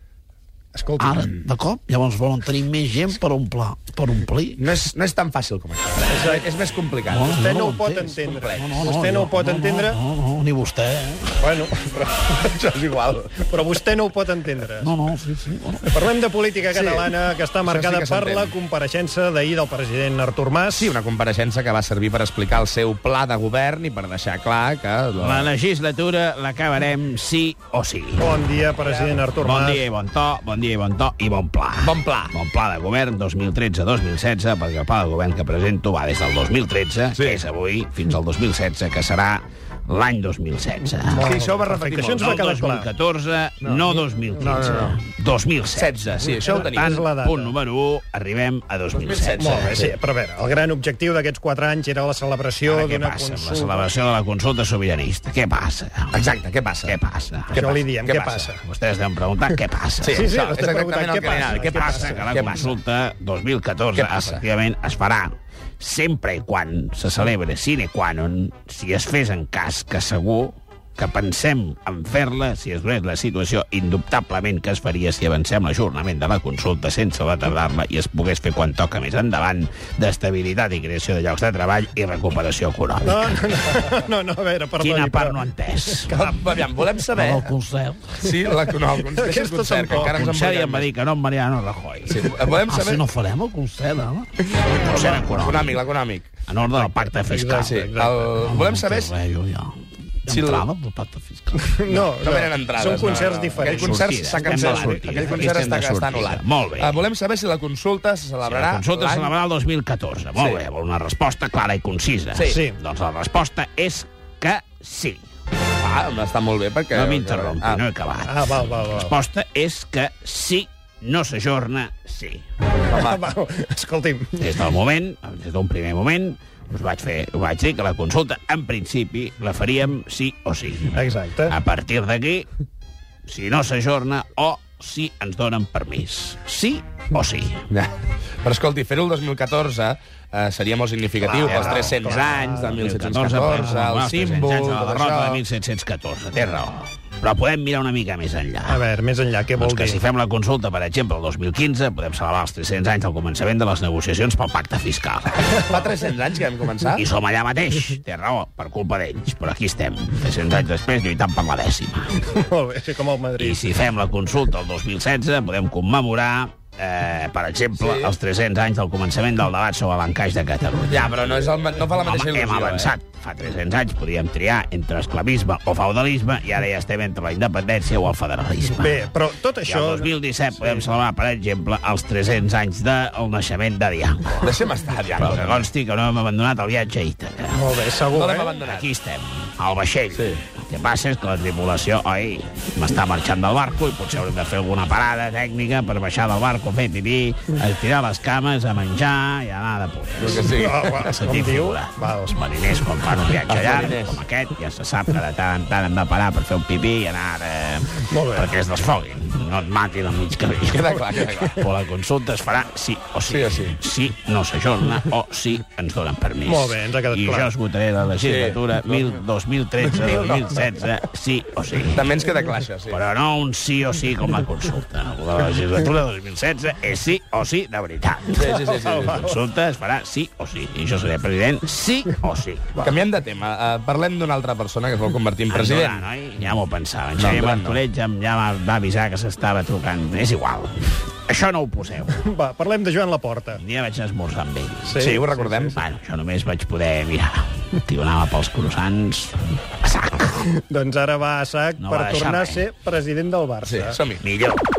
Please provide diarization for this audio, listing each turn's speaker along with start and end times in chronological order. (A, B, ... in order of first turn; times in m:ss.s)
0:00.7-0:01.3 A
0:01.0-0:04.6 B
0:04.6-0:07.3 C
0:06.1-0:06.5 A
0:07.0-0:11.4 B
0:07.3-0:10.0 A
0:08.2-0:08.9 C
0:11.4-0:12.5 A
0:12.4-0:13.4 C
0:13.4-0:14.9 A
0:14.8-0:15.9 B
0:15.9-0:20.9 A
0:16.7-0:17.1 C
0:17.6-0:18.5 C
0:20.7-0:25.5 C
0:25.2-0:41.3 D
0:28.2-0:29.9 A
0:31.8-0:32.3 C
0:37.1-0:37.4 C
0:41.0-0:42.9 A
0:41.2-0:42.4 C
0:42.2-0:49.9 D
0:43.6-0:45.0 C
0:44.3-0:44.9 A
0:45.7-0:47.0 C
0:46.2-0:47.6 A
0:48.9-0:49.9 C
0:49.4-0:53.9 A
0:52.6-0:56.1 D
0:56.1-0:56.9 C
0:56.8-0:57.6 D
0:57.5-0:58.6 A
0:57.5-0:58.5 C
0:58.6-1:00.3 D
1:00.0-1:02.7 C
1:00.1-1:02.4 A
1:01.6-1:23.4 D
1:04.0-1:04.4 C
1:23.0-1:26.6 A
1:24.8-1:26.1 D
1:26.1-1:27.5 C
1:27.1-1:28.3 B
1:28.2-1:30.9 C
1:29.0-1:30.2 A
1:29.9-1:32.2 D
1:32.1-1:33.0 C
1:32.7-1:34.3 B
1:34.6-1:36.3 C
1:34.8-1:35.2 A
1:34.8-1:35.8 D
1:36.5-1:37.7 D
1:36.7-1:38.3 A
1:37.6-1:39.1 C
1:38.4-1:39.7 B
1:40.2-1:41.6 B
1:40.3-1:40.6 C
1:41.6-1:45.8 A
1:41.9-1:49.3 C
1:43.6-1:47.0 D
1:48.4-1:55.2 D
1:50.4-1:50.6 C
1:52.3-1:52.6 C
1:52.5-1:52.8 A
1:55.8-1:57.8 C
1:56.9-2:02.4 D
1:58.2-1:59.1 A
2:02.9-2:03.2 C
2:02.9-2:04.7 A
2:04.4-2:12.5 D
2:10.9-2:11.6 A
2:13.2-2:17.6 D
2:17.7-2:25.4 C
2:21.2-2:22.8 A
2:21.5-2:28.8 D
2:28.6-2:30.0 A
2:29.5-2:35.6 D
2:35.4-2:35.9 A
2:35.7-2:37.0 C
2:36.9-2:42.2 D
2:42.2-2:43.7 A
2:43.4-2:51.1 D
2:47.7-2:48.1 C
2:50.9-2:52.9 C
2:52.0-2:59.0 D
2:58.8-3:00.9 A
2:59.6-3:04.5 D
3:04.4-3:05.7 C
3:05.2-3:07.7 D
3:07.5-3:08.6 A
3:08.1-3:08.9 C
3:08.6-3:20.5 D
3:10.1-3:10.4 C
3:20.2-3:21.1 C
3:20.2-3:22.4 A
3:21.0-3:31.0 D
3:23.3-3:24.2 C
3:28.1-3:28.5 A
3:30.7-3:31.7 C
3:31.5-3:42.0 D
3:33.3-3:33.8 C
3:36.4-3:37.5 A
3:38.2-3:39.2 C
3:39.8-3:40.6 C
3:41.9-3:43.0 C
3:42.9-3:48.4 D
3:48.3-3:49.3 C
3:48.4-3:49.4 A
3:49.1-3:52.8 D
3:52.8-3:56.0 C
3:55.5-4:02.2 D
3:57.2-3:57.8 C
4:02.2-4:03.6 A
4:03.5-4:05.0 D
4:04.8-4:05.8 A
4:05.0-4:05.8 C
4:05.7-4:10.5 D
4:10.7-4:14.0 A
4:11.8-4:12.6 D
4:13.6-4:14.2 C
4:14.2-4:14.6 D